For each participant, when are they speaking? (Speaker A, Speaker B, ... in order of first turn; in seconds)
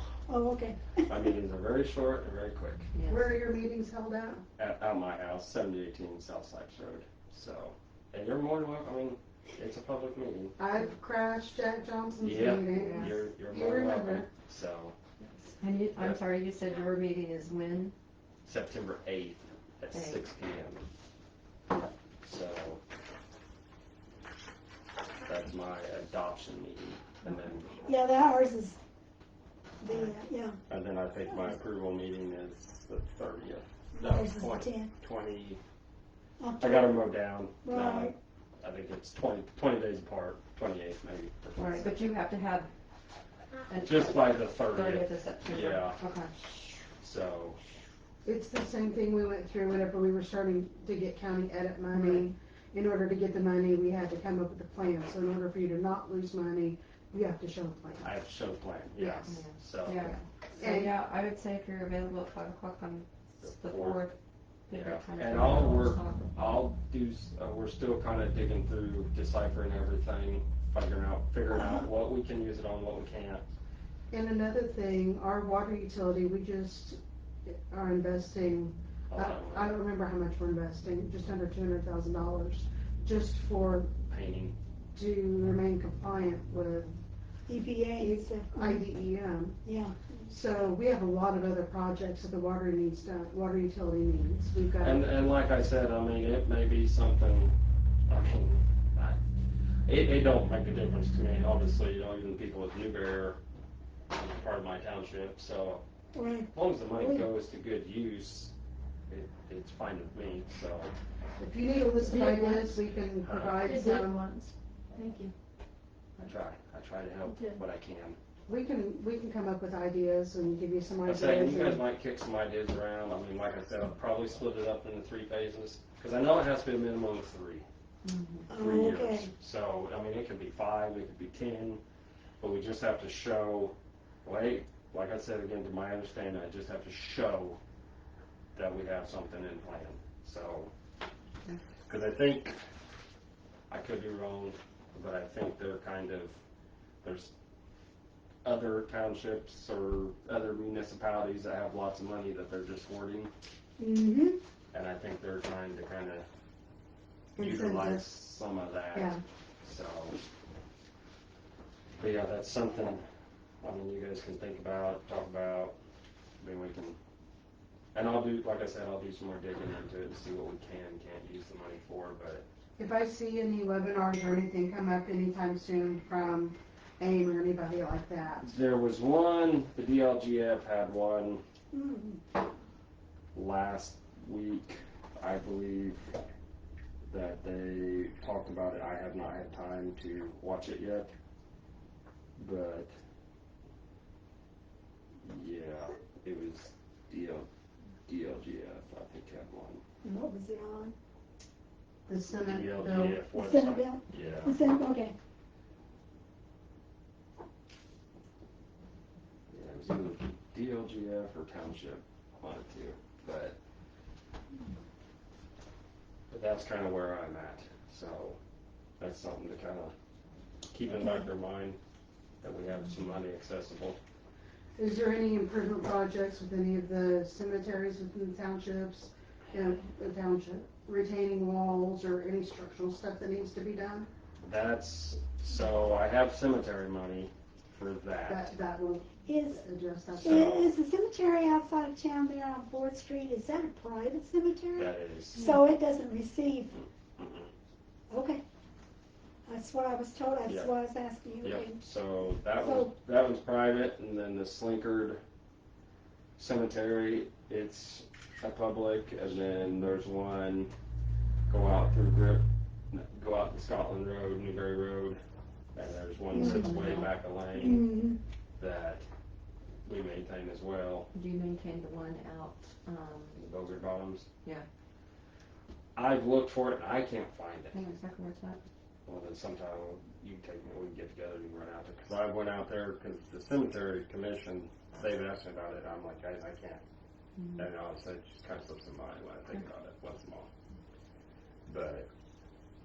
Speaker A: 0.2-1.2, 27.8-28.8, 29.8-30.6, 31.3-31.6, 33.9-34.9, 36.4-38.1, 71.5-71.8, 87.5-88.8, 89.6-90.0, 106.1-107.3, 128.5-129.3, 153.8-154.4, 181.7-182.2, 200.0-200.9, 203.3-205.1, 239.2-239.6, 240.2-246.8, 248.1-248.4, 249.4-251.8, 252.5-252.9, 266.3-266.8, 267.5-268.2
Speaker B: 1.1-2.9, 4.6-10.6, 12.2-14.9, 18.4-20.9, 22.2-22.8, 25.2-27.8, 30.7-35.6, 36.6-42.0, 43.8-46.0, 47.0-47.6, 58.0-60.1, 63.4-64.0, 64.7-73.4, 79.1-79.7, 84.1-84.5, 94.8-97.5, 98.1-99.2, 99.8-103.4, 104.1-105.8, 106.5-108.5, 109.1-110.9, 113.2-113.7, 116.2-118.2, 121.0-127.6, 128.5-131.8, 132.4-137.6, 138.5-140.7, 141.9-142.6, 143.7-146.3, 147.0-147.3, 148.4-153.3, 154.7-156.2, 157.4-160.2, 162.0-163.0, 163.6-165.8, 166.4-167.0, 167.9-172.4, 178.4-181.4, 183.3-186.1, 187.1-191.1, 192.4-192.9, 195.2-197.5, 198.1-199.8, 202.4-204.6, 209.5-213.6, 216.3-218.4, 219.0-219.9, 220.7-221.8, 222.4-224.0, 234.4-238.5, 240.2-240.7, 244.7-245.5, 247.2-247.5, 250.4-250.7, 251.4-255.2, 256.4-260.7, 261.5-265.2, 265.7-267.9, 268.6-269.0, 269.8-271.1, 273.4-274.3, 275.9-277.9, 279.1-286.8, 287.6-290.5, 291.7-292.1
Speaker C: 2.9-3.3, 15.2-17.9, 19.9-20.2, 41.5-42.7, 43.7-46.4, 51.9-52.3, 59.2-64.2, 64.7-66.3, 128.0-128.5, 266.3-267.1, 271.1-273.4, 277.7-278.6, 287.4-287.6
Speaker D: 3.1-4.4, 10.6-14.3, 48.2-58.1, 59.0-59.4, 60.0-61.0, 74.1-84.0, 84.9-86.9, 88.0-89.6, 90.3-95.1, 111.4-114.4, 118.5-121.8, 157.4-158.1, 158.9-159.2, 172.8-178.5, 202.1-203.2, 224.8-234.1, 238.3-240.5
Speaker E: 112.0-112.8, 113.6-115.3, 117.3-117.6